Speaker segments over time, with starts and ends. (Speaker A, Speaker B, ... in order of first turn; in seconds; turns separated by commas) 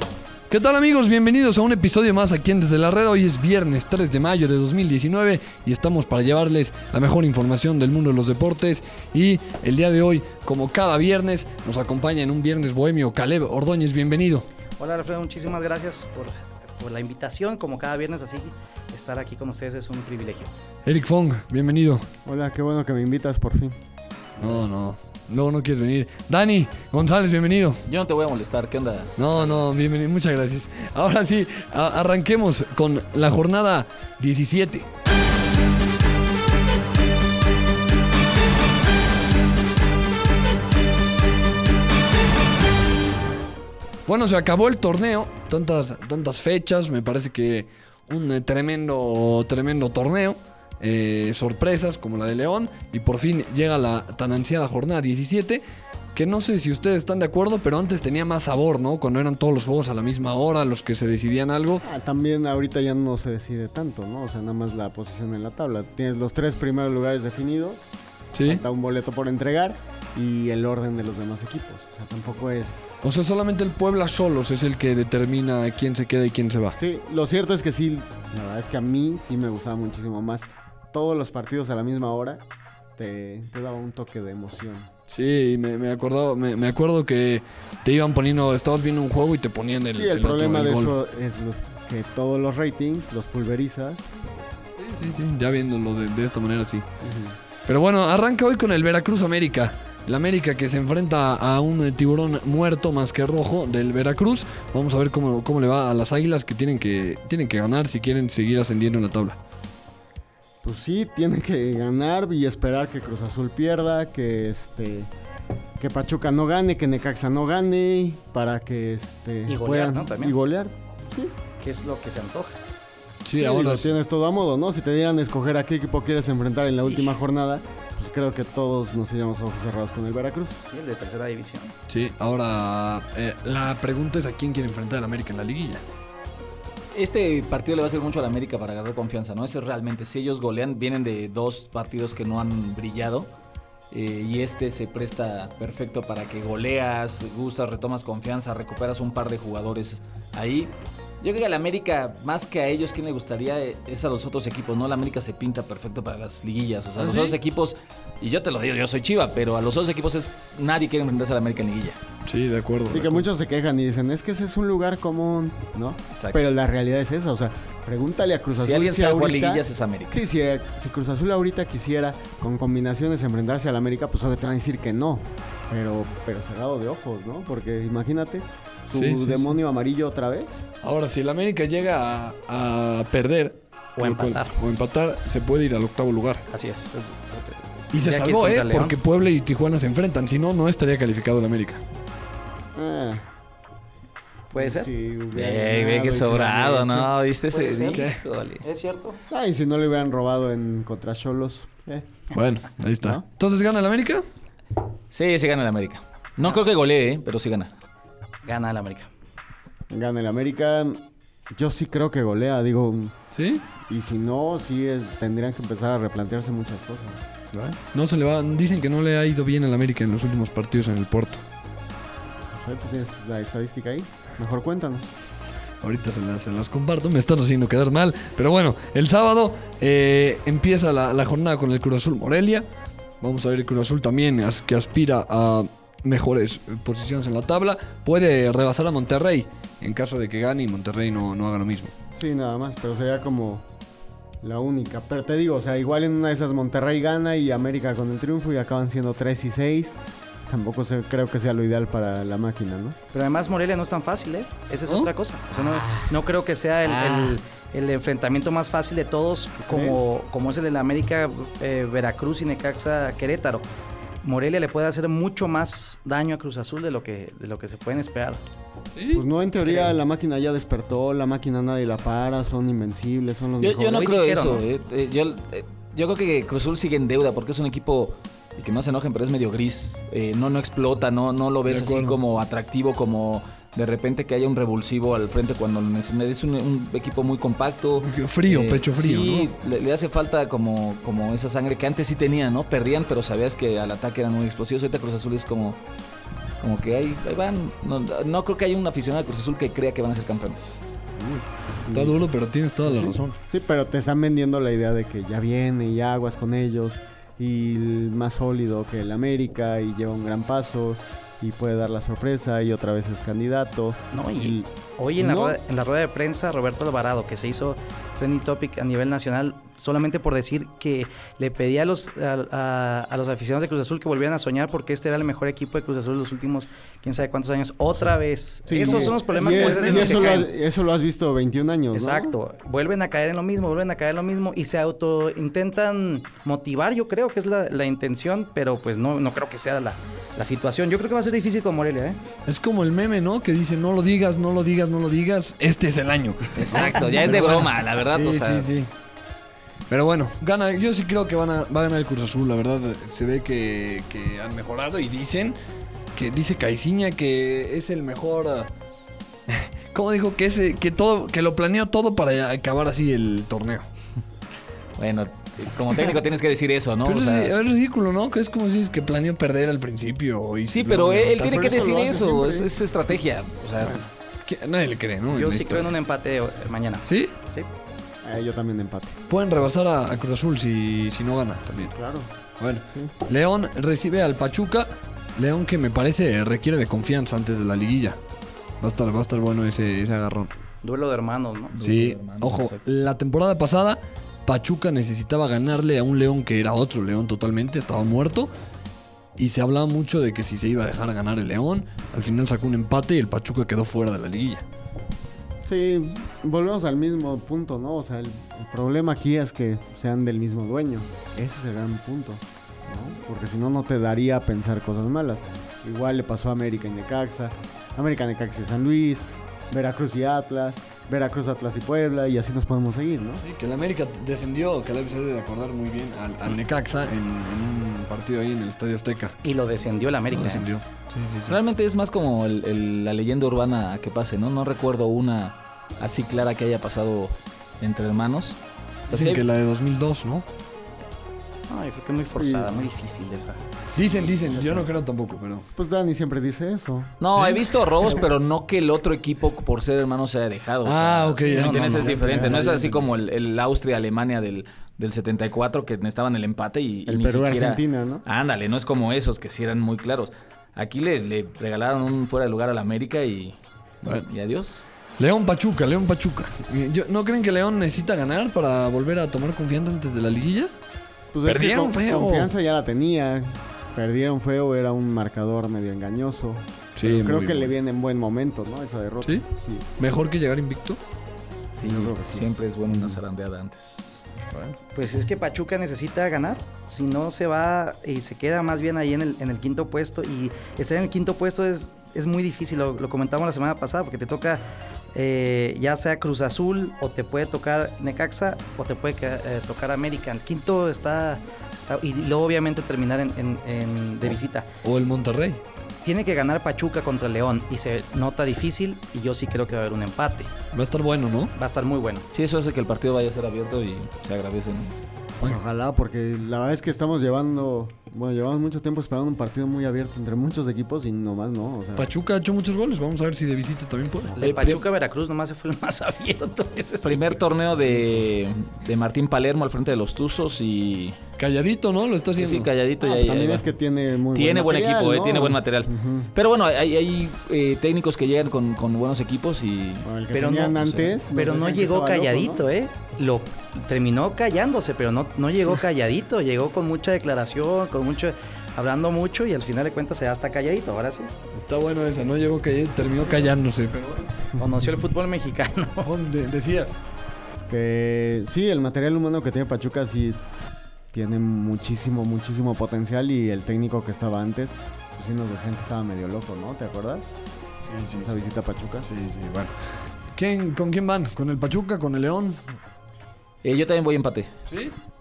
Speaker A: 0.5-14.5, Speaker B: 14.8-20.5, Speaker A: 20.9-22.1, Speaker C: 22.3-23.8, Speaker A: 24.4-27.8, Speaker D: 27.9-29.6, Speaker A: 29.2-34.9, Speaker A: 44.1-55.6, Speaker A: 56.1-61.9, Speaker C: 61.8-67.8, Speaker A: 68.3-68.6, Speaker C: 68.4-73.0, Speaker A: 73.0-76.8, Speaker C: 76.8-82.4, Speaker C: 83.0-84.9, Speaker A: 85.1-90.9, Speaker C: 89.9-94.1, Speaker A: 94.8-96.8, Speaker C: 97.0-97.4, Speaker A: 97.7-109.4, Speaker C: 110.6-115.1, Speaker C: 115.8-121.3, Speaker B: 119.5-120.3, Speaker B: 121.6-122.6, Speaker A: 123.2-123.9, Speaker C: 123.3-130.6, Speaker B: 126.8-127.2, Speaker B: 130.6-131.7, Speaker A: 131.9-135.8, Speaker D: 136.9-143.3, Speaker D: 143.9-162.0, Speaker A: 157.0-157.4, Speaker A: 162.3-163.2, Speaker C: 162.9-180.6, Speaker D: 166.1-166.5, Speaker D: 168.6-170.3, Speaker A: 178.9-179.5, Speaker A: 180.8-186.4, Speaker B: 184.0-184.6, Speaker B: 186.5-189.0, Speaker A: 187.9-191.8, Speaker C: 192.8-193.2, Speaker B: 194.5-194.9, Speaker C: 194.5-197.1, Speaker D: 195.3-198.6, Speaker B: 197.5-199.2, Speaker A: 197.9-198.2, Speaker C: 199.3-202.1, Speaker A: 202.3-204.2, Speaker D: 205.1-207.7, Speaker B: 208.4-209.1, Speaker C: 209.9-213.2, Speaker A: 213.3-213.6, Speaker C: 213.9-217.2, Speaker A: 217.5-221.4, Speaker C: 222.5-225.1, Speaker A: 225.8-232.7, Speaker A: 233.2-241.9, Speaker C: 242.2-243.6, Speaker C: 244.4-250.0, Speaker C: 250.5-253.0, Speaker B: 253.1-263.7, Speaker C: 255.5-256.2, Speaker C: 256.8-257.4, Speaker C: 259.7-260.1, Speaker B: 264.2-268.4, Speaker A: 268.9-269.2, Speaker C: 269.1-274.1, Speaker B: 269.6-269.9, Speaker D: 273.6-295.8, Speaker B: 273.9-274.6, Speaker A: 281.7-282.2, Speaker A: 288.0-289.5, Speaker D: 296.6-300.8, Speaker A: 301.2-303.4, Speaker C: 301.9-302.2, Speaker C: 302.8-315.6, Speaker B: 314.1-330.5, Speaker C: 328.7-332.4, Speaker A: 328.9-330.0, Speaker D: 329.7-330.3, Speaker B: 331.9-342.2, Speaker A: 342.5-348.9, Speaker D: 346.6-348.7, Speaker B: 346.6-347.4, Speaker A: 349.9-355.6, Speaker A: 356.1-358.7, Speaker A: 359.5-363.9, Speaker D: 365.0-367.5, Speaker A: 367.0-372.0, Speaker D: 370.7-374.0, Speaker C: 371.4-372.7, Speaker A: 374.4-375.9, Speaker B: 375.3-377.7, Speaker A: 377.1-377.3, Speaker C: 378.2-379.2, Speaker A: 379.3-381.9, Speaker C: 381.8-382.3, Speaker A: 382.6-388.2, Speaker A: 388.8-390.5, Speaker B: 390.8-391.8, Speaker D: 391.7-392.8, Speaker A: 391.8-398.5, Speaker A: 399.4-404.6, Speaker C: 405.6-423.4, Speaker A: 423.4-429.4, Speaker B: 429.4-430.7, Speaker A: 430.3-431.6, Speaker D: 431.5-439.4, Speaker A: 439.1-440.4, Speaker B: 441.7-443.6, Speaker C: 442.4-442.8, Speaker A: 443.9-445.7, Speaker C: 444.5-444.9, Speaker C: 445.8-447.1, Speaker D: 447.2-463.6, Speaker A: 447.3-447.7, Speaker A: 450.9-452.5, Speaker B: 451.4-452.1, Speaker C: 452.1-453.1, Speaker C: 457.1-458.2, Speaker D: 464.1-464.8, Speaker A: 465.2-470.7, Speaker C: 471.3-479.9, Speaker A: 471.5-472.5, Speaker A: 477.0-477.7, Speaker A: 480.0-481.0, Speaker C: 481.7-483.2, Speaker D: 481.8-484.2, Speaker A: 484.5-484.8, Speaker B: 484.9-494.6, Speaker B: 495.1-504.7, Speaker A: 504.8-505.6, Speaker B: 506.0-510.5, Speaker A: 510.7-511.5, Speaker B: 511.6-512.3, Speaker D: 512.3-514.9, Speaker C: 515.4-522.1, Speaker A: 522.0-524.8, Speaker B: 524.4-527.4, Speaker D: 527.0-531.2, Speaker A: 531.4-532.7, Speaker D: 532.4-533.7, Speaker C: 533.0-536.3, Speaker D: 534.3-540.1, Speaker C: 540.0-542.6, Speaker B: 540.3-551.3, Speaker A: 551.6-554.4, Speaker B: 554.6-556.1, Speaker A: 556.0-557.0, Speaker C: 557.7-560.4, Speaker C: 561.1-567.3, Speaker A: 567.9-568.4, Speaker C: 568.1-569.1, Speaker A: 569.0-572.8, Speaker D: 573.6-574.5, Speaker A: 574.7-575.0